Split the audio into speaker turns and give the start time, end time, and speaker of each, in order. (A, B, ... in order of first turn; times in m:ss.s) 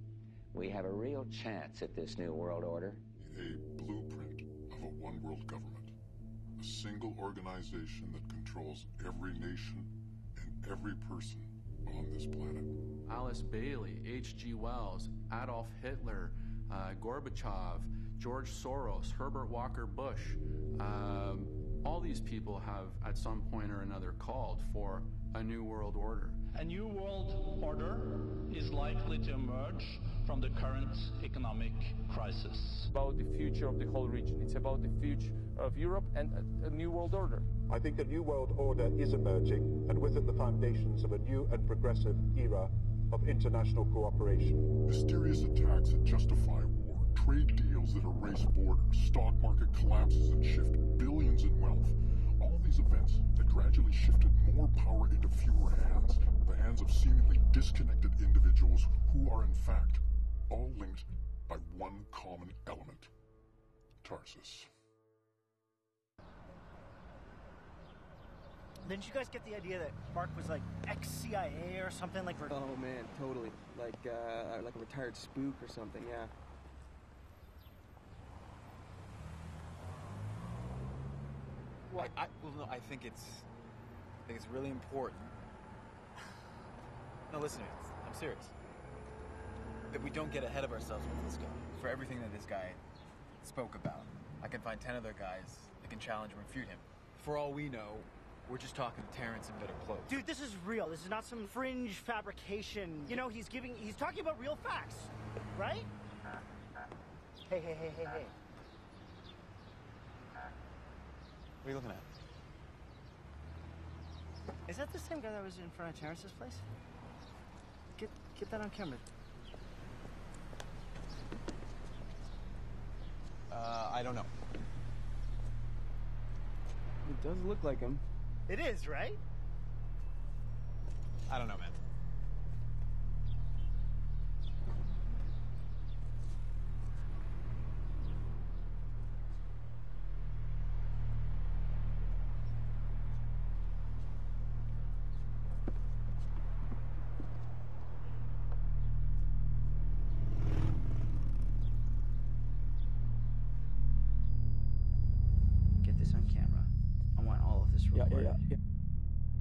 0:00.5-0:03.0 A
0:03.2-0:05.9 B
0:06.6-0:12.7 B
0:13.1-0:26.4 C
0:26.5-0:32.9 D
0:32.9-0:37.5 E
0:37.6-0:44.8 F
0:44.8-1:03.1 B
1:04.0-1:04.7 B
1:08.8-1:12.5 G
1:12.5-1:16.3 H
1:22.0-1:23.5 I
1:24.3-1:25.4 I
1:27.3-1:28.5 I
1:29.9-1:32.8 I
1:33.4-1:40.2 I
1:40.1-1:45.9 G
1:47.5-1:48.3 G
1:51.6-1:52.1 I
1:54.7-1:56.6 G
1:58.0-1:59.1 G
2:03.5-2:04.3 I
2:07.0-2:08.0 H
2:08.5-2:09.2 G
2:11.3-2:11.8 I
2:35.8-2:38.4 G
2:37.9-2:38.6 H